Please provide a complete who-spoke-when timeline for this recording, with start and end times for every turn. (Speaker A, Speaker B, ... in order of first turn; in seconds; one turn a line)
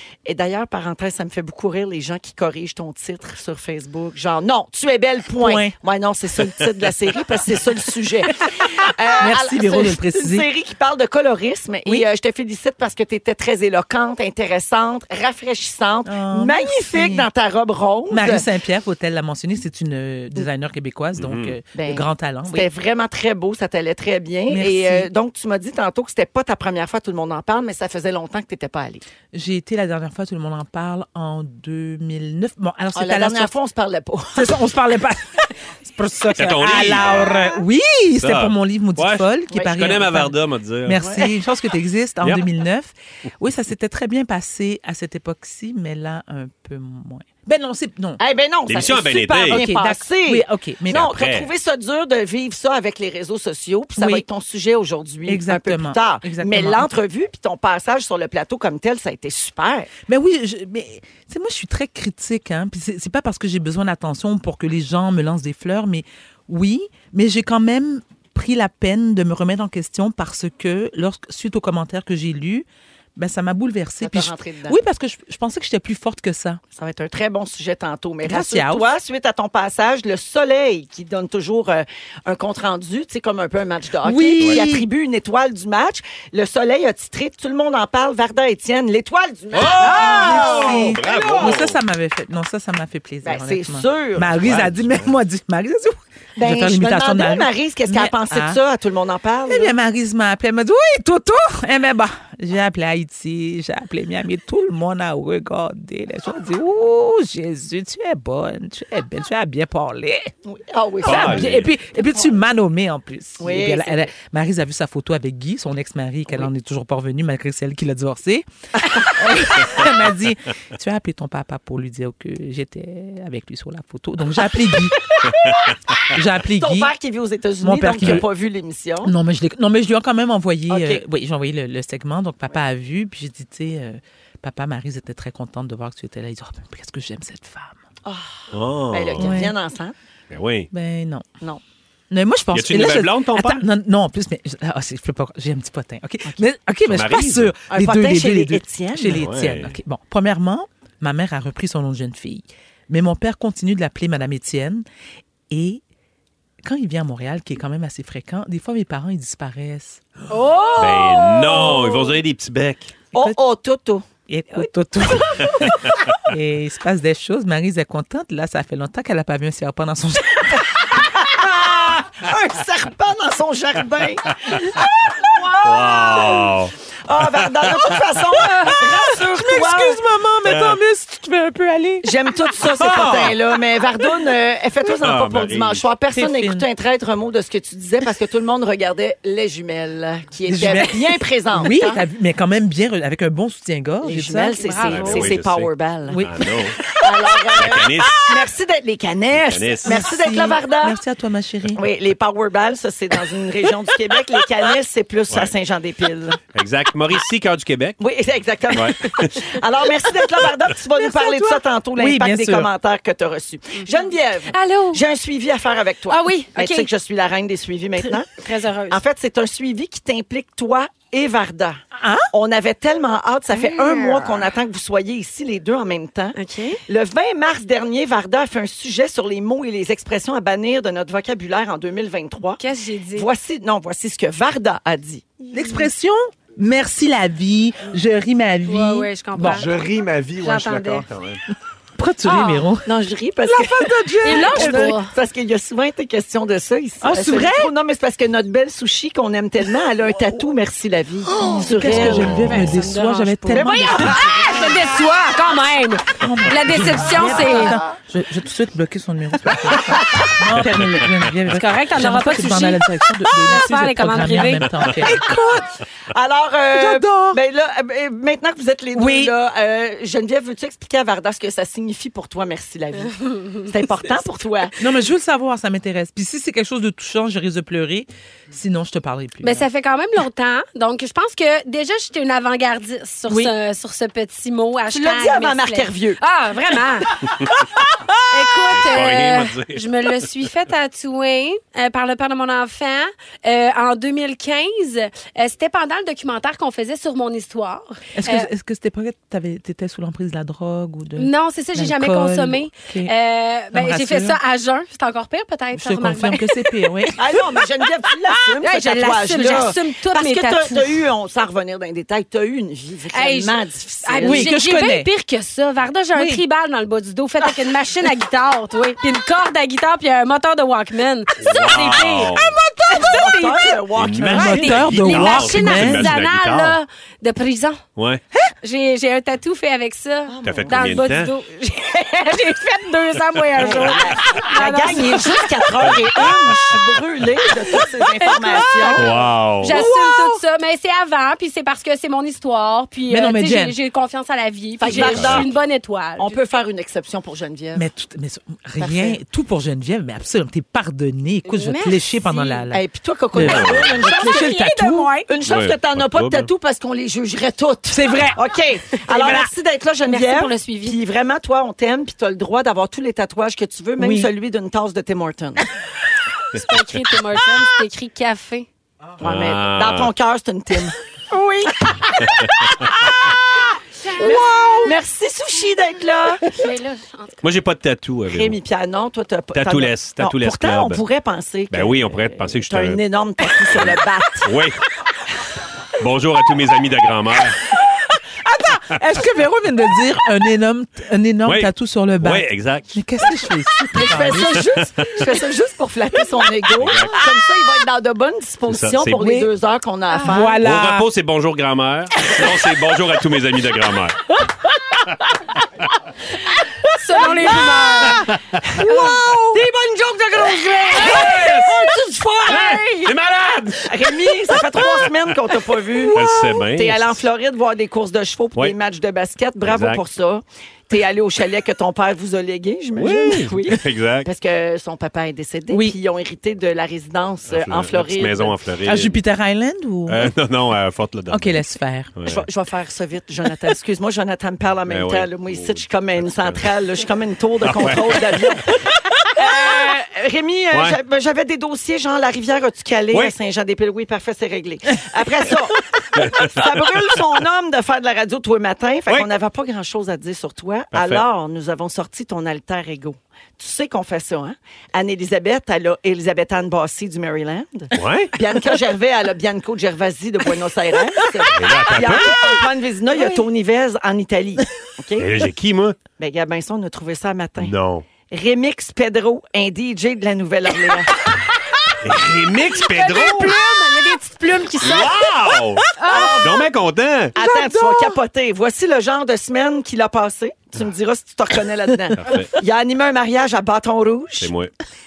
Speaker A: 0.2-18.5
Speaker B: 5.4-5.8
Speaker B: 9.2-10.5
Speaker B: 16.1-17.3
Speaker B: 18.1-22.7
Speaker C: 21.2-21.6
Speaker A: 21.8-29.0
Speaker B: 24.5-25.1
Speaker B: 29.3-33.5
Speaker A: 33.0-34.5
Speaker B: 34.4-48.2
Speaker C: 36.3-37.4
Speaker C: 38.2-41.0
Speaker A: 48.2-59.9
Speaker C: 48.7-49.6
Speaker B: 49.0-51.1
Speaker C: 50.9-51.5
Speaker B: 54.0-54.2
Speaker B: 55.3-56.9
Speaker B: 60.1-76.6
Speaker A: 74.0-74.8
Speaker A: 76.7-91.6
Speaker B: 78.2-78.9
Speaker B: 84.0-84.9
Speaker C: 89.5-91.8
Speaker B: 89.8-98.6
Speaker A: 93.2-94.4
Speaker C: 94.4-95.1
Speaker A: 96.4-99.7
Speaker B: 99.5-110.3
Speaker A: 110.5-111.5
Speaker B: 111.0-125.2
Speaker C: 111.0-111.7
Speaker A: 113.4-114.1
Speaker A: 125.3-129.1
Speaker B: 126.1-126.9
Speaker B: 127.6-128.3
Speaker B: 129.0-137.8
Speaker A: 130.7-131.0
Speaker C: 138.5-139.3
Speaker A: 138.9-139.9
Speaker B: 139.2-139.5
Speaker C: 140.3-140.7
Speaker B: 140.7-141.3
Speaker B: 142.1-154.9
Speaker C: 142.5-143.7
Speaker C: 146.9-147.5
Speaker A: 147.7-149.2
Speaker C: 149.2-149.8
Speaker B: 155.5-155.8
Speaker B: 156.6-160.0
Speaker D: 160.3-162.2
Speaker C: 160.8-163.0
Speaker A: 163.1-164.1
Speaker B: 164.3-170.6
Speaker A: 171.0-176.4
Speaker C: 175.6-176.7
Speaker A: 177.1-180.0
Speaker B: 179.2-183.4
Speaker C: 180.4-180.8
Speaker A: 182.0-192.0
Speaker C: 182.7-183.4
Speaker C: 185.0-185.8
Speaker B: 186.1-186.7
Speaker B: 190.5-194.6
Speaker A: 194.0-196.2
Speaker D: 194.6-195.3
Speaker C: 194.9-196.9
Speaker B: 196.1-197.1
Speaker A: 197.0-201.0
Speaker C: 197.5-198.3
Speaker C: 199.3-200.0
Speaker B: 199.8-201.8
Speaker A: 201.8-206.4
Speaker C: 206.5-208.0
Speaker A: 208.0-232.6
Speaker C: 208.7-209.6
Speaker B: 211.0-212.7
Speaker D: 213.9-215.0
Speaker D: 216.1-216.9
Speaker D: 218.4-219.0
Speaker B: 222.0-222.3
Speaker D: 223.5-224.4
Speaker D: 226.3-226.8
Speaker D: 232.6-233.3
Speaker A: 233.1-235.2
Speaker B: 235.5-239.7
Speaker D: 235.6-235.9
Speaker D: 238.7-239.7
Speaker E: 239.4-241.4
Speaker D: 240.4-241.1
Speaker B: 241.9-242.9
Speaker D: 242.2-242.7
Speaker A: 242.8-252.4
Speaker B: 243.5-245.0
Speaker D: 244.2-245.1
Speaker B: 247.0-247.7
Speaker B: 251.3-254.6
Speaker D: 251.9-257.8
Speaker C: 252.0-252.6
Speaker A: 253.5-253.8
Speaker B: 256.2-265.7
Speaker D: 261.5-262.9
Speaker D: 263.4-264.9
Speaker A: 265.2-265.6
Speaker A: 266.1-274.8
Speaker B: 266.7-267.4
Speaker B: 268.9-269.3
Speaker B: 274.8-279.7
Speaker D: 279.4-287.3
Speaker A: 284.9-286.2
Speaker D: 288.3-298.5
Speaker C: 288.7-290.3
Speaker B: 298.1-303.1
Speaker D: 301.2-307.1
Speaker B: 303.7-304.4
Speaker B: 305.7-307.3
Speaker A: 307.2-314.5
Speaker D: 308.6-310.9
Speaker D: 313.1-327.8
Speaker B: 314.2-315.1
Speaker B: 316.1-316.4
Speaker C: 321.4-322.6
Speaker B: 322.4-323.4
Speaker A: 323.0-324.7
Speaker C: 324.0-326.8
Speaker B: 324.2-326.1
Speaker D: 328.6-335.9
Speaker A: 330.3-331.1
Speaker C: 330.4-331.3
Speaker A: 333.6-339.1
Speaker D: 338.2-346.4
Speaker C: 339.0-339.8
Speaker B: 339.6-340.4
Speaker B: 343.1-343.8
Speaker A: 344.8-345.5
Speaker C: 344.9-345.5
Speaker A: 346.2-347.9
Speaker B: 347.8-355.1
Speaker A: 348.8-349.2
Speaker D: 351.5-352.6
Speaker A: 352.7-354.6
Speaker C: 353.4-353.9
Speaker D: 354.0-355.3
Speaker A: 355.3-365.7
Speaker C: 355.5-356.5
Speaker B: 357.9-358.4
Speaker D: 359.1-359.5
Speaker D: 360.1-361.0
Speaker B: 364.0-364.3
Speaker D: 366.5-368.7
Speaker A: 369.2-376.5
Speaker C: 369.2-370.1
Speaker C: 372.2-372.9
Speaker D: 374.1-374.9
Speaker D: 376.5-377.4
Speaker C: 377.4-378.6
Speaker A: 378.3-384.5
Speaker C: 379.5-381.0
Speaker C: 381.7-383.0
Speaker C: 383.7-384.8
Speaker C: 386.0-387.7
Speaker B: 388.4-394.8
Speaker C: 391.4-393.0
Speaker A: 393.9-400.6
Speaker C: 396.8-397.2
Speaker C: 398.7-399.4
Speaker D: 400.1-400.4
Speaker B: 400.3-401.1
Speaker C: 400.6-404.2
Speaker D: 407.0-409.6
Speaker A: 407.2-407.7
Speaker C: 408.5-408.8
Speaker A: 409.5-411.5
Speaker D: 410.8-413.1
Speaker C: 411.0-411.8
Speaker C: 412.5-413.9
Speaker A: 413.8-428.6
Speaker C: 416.1-417.2
Speaker C: 419.6-420.0
Speaker C: 423.0-424.3
Speaker B: 425.7-426.0
Speaker C: 427.5-429.2
Speaker B: 428.9-430.3
Speaker C: 430.1-432.4
Speaker B: 431.3-432.1
Speaker A: 432.3-438.8
Speaker C: 434.9-436.7
Speaker C: 437.6-439.2
Speaker A: 439.3-465.3
Speaker C: 446.1-446.9
Speaker C: 450.9-451.2
Speaker C: 457.9-458.3
Speaker C: 461.5-462.4
Speaker C: 465.2-466.0
Speaker A: 466.2-467.7
Speaker C: 467.6-468.1
Speaker A: 468.3-471.1
Speaker C: 472.0-473.6
Speaker D: 472.7-475.4
Speaker C: 474.8-477.3
Speaker D: 476.0-476.5
Speaker A: 477.4-484.5
Speaker B: 477.4-478.2
Speaker C: 482.2-482.5
Speaker C: 484.4-484.7